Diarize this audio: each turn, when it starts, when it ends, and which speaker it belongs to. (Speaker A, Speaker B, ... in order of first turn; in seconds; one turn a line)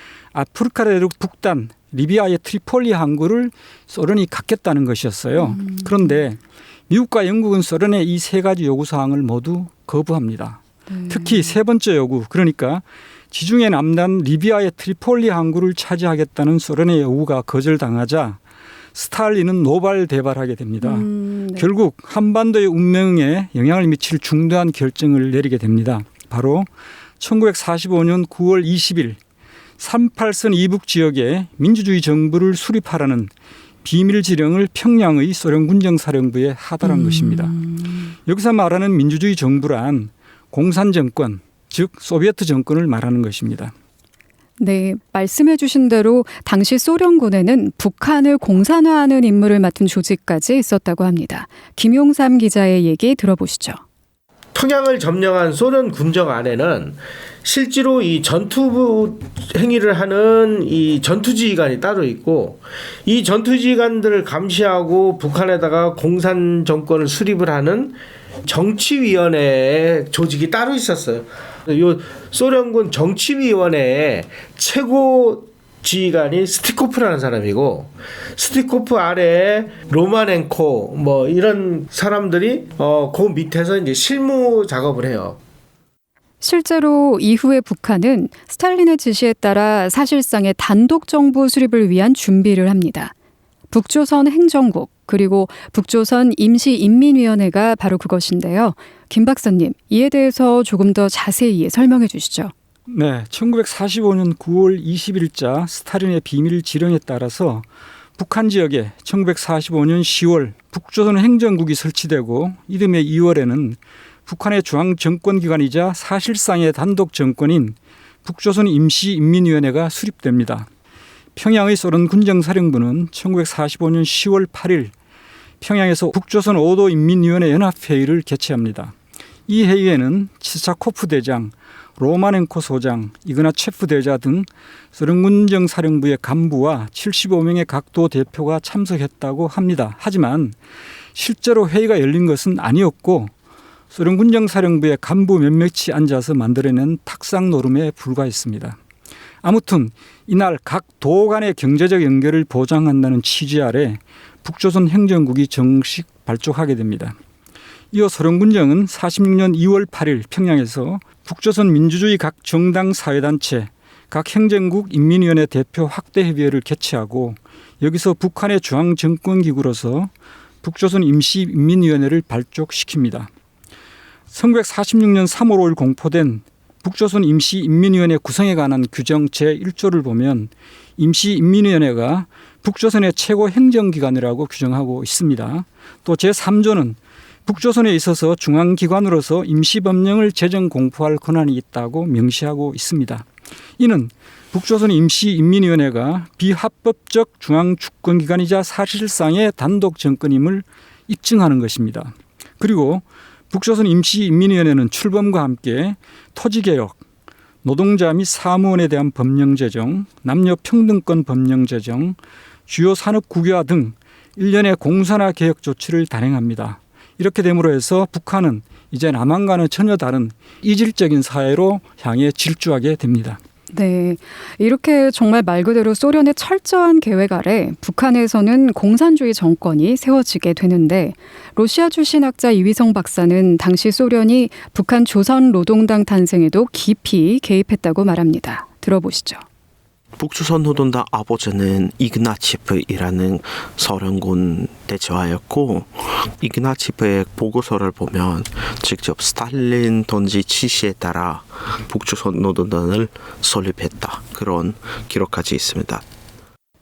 Speaker A: 0.3-18.4
Speaker B: 5.5-5.9
Speaker B: 10.9-11.5
Speaker A: 18.9-26.7
Speaker B: 20.8-21.7
Speaker A: 27.2-29.2
Speaker A: 29.8-33.3
Speaker A: 33.8-37.6
Speaker B: 36.9-37.8
Speaker A: 38.2-43.7
Speaker B: 44.6-53.8
Speaker C: 54.5-85.4
Speaker B: 86.4-93.1
Speaker B: 93.7-102.5
Speaker A: 102.9-107.7
Speaker A: 108.2-120.7
Speaker A: 121.3-124.9
Speaker A: 125.6-128.9
Speaker A: 129.5-140.5
Speaker A: 141.1-143.3
Speaker A: 143.9-148.8
Speaker A: 149.4-157.2
Speaker A: 157.9-170.1
Speaker A: 170.6-173.3
Speaker A: 174.3-193.2
Speaker A: 193.8-207.0
Speaker A: 207.6-212.2
Speaker A: 212.7-223.4
Speaker B: 223.7-239.4
Speaker D: 240.2-256.0